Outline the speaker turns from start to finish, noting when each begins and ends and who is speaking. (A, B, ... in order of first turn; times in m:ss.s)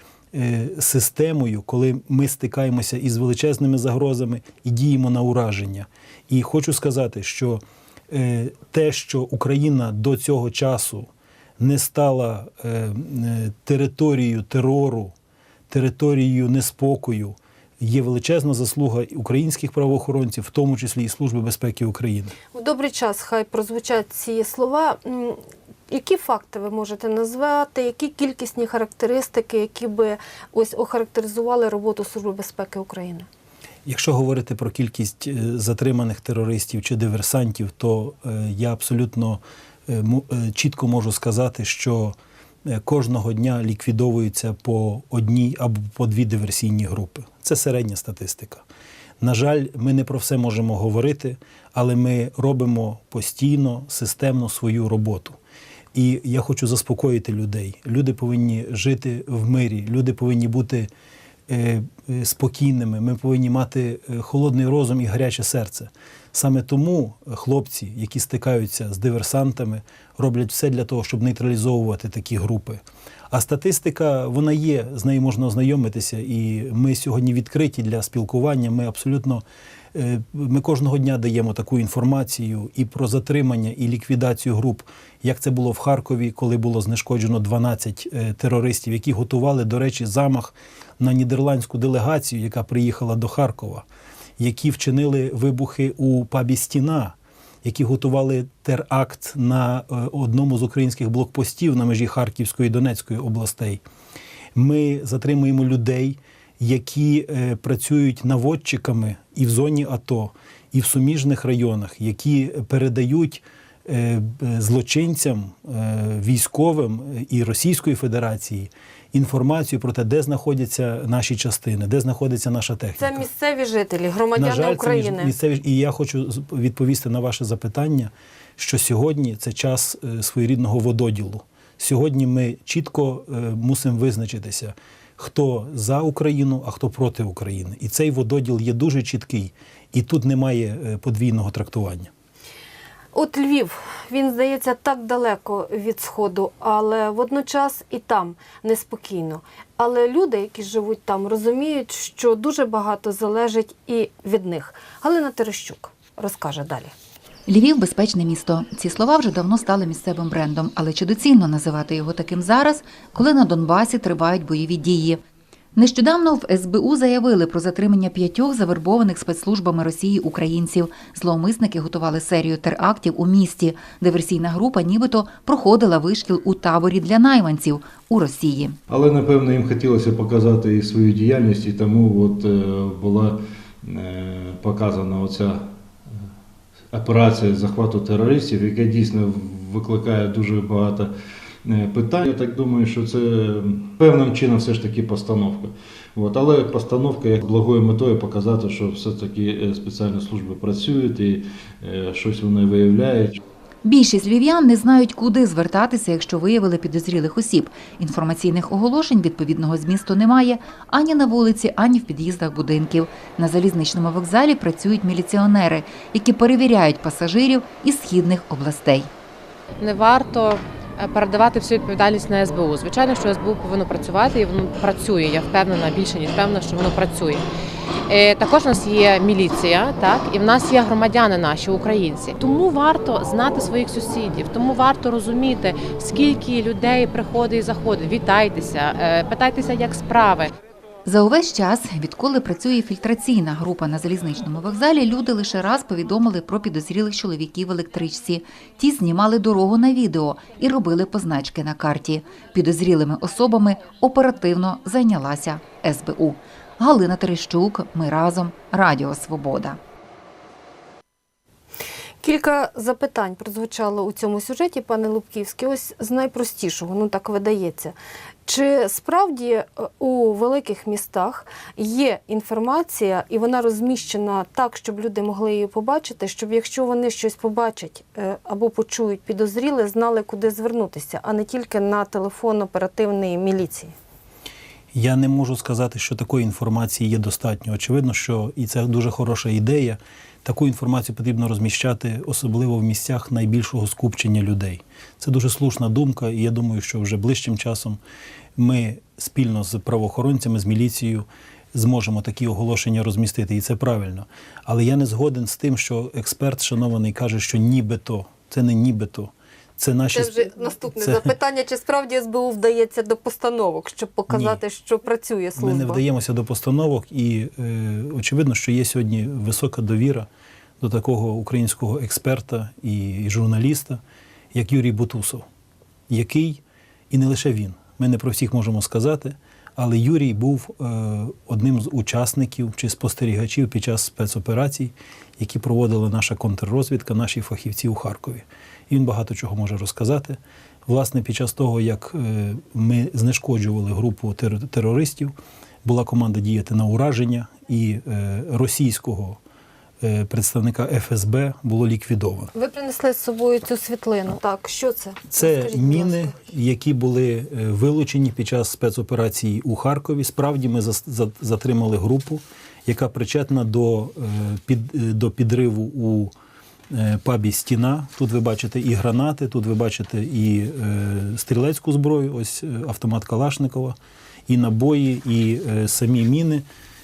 0:00.3-0:15.1 A
0:15.7-0:22.3 A
0:22.5-0:33.3 B
0:33.9-0:48.6 A
0:49.2-0:55.4 A
0:55.9-1:00.9 A
1:01.5-1:33.8 A
1:34.4-1:43.8 A
1:44.5-2:03.2 A
2:03.0-2:05.3 B
2:04.4-2:22.1 A
2:23.1-2:36.9 B
2:37.5-2:45.2 C
2:45.8-2:58.8 C
2:58.9-3:05.7 D
3:06.9-3:11.1 D
3:11.6-3:23.4 D
3:23.8-3:39.1 C
3:39.8-3:47.4 E
3:48.1-4:00.5 E
4:01.0-4:19.8 C
4:22.2-4:28.0 B
4:28.5-4:43.9 B
4:44.9-4:58.0 A
4:58.6-5:11.3 A
5:10.1-5:16.0 B
5:14.3-5:14.6 A
5:15.6-5:20.3 A
5:20.8-5:24.0 A
5:24.5-5:25.5 A
5:26.1-5:49.4 A
5:50.0-5:52.5 A
5:52.5-5:56.4 B
5:55.3-6:06.3 A
6:06.9-6:14.0 A
6:14.5-6:16.6 A